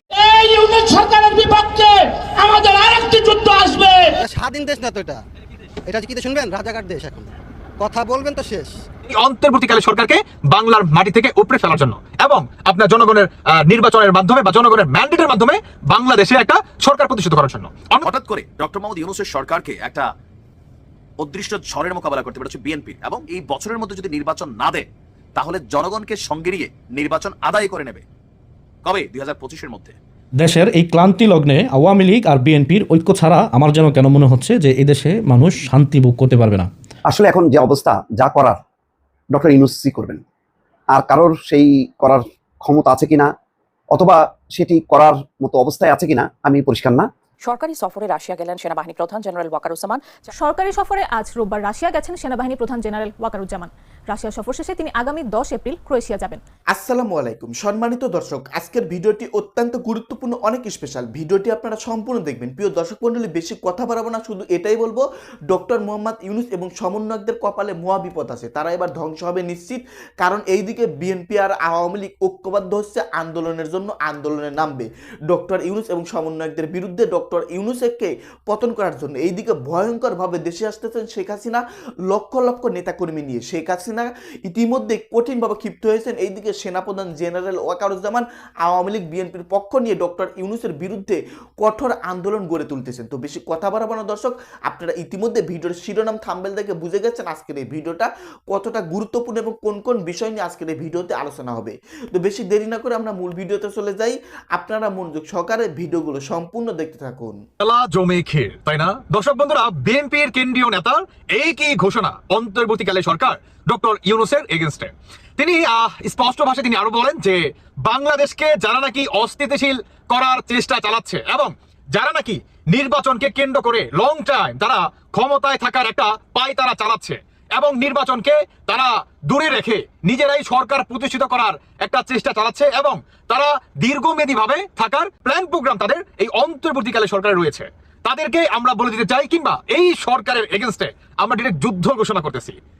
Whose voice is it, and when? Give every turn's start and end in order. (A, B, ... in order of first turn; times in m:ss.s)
0:00.1-0:04.1 A
0:04.2-0:05.2 B
0:05.9-0:08.7 B
0:09.1-0:18.0 C
0:18.0-0:20.0 D
0:21.2-0:28.0 D
0:28.8-0:30.0 D
0:30.4-0:36.7 E
0:37.1-0:38.6 F
0:39.3-0:40.2 F
0:40.9-0:43.3 F
0:43.9-0:47.1 F
0:47.4-0:50.2 G
0:50.3-0:56.4 H
0:56.7-1:47.4 I
1:47.6-2:22.6 C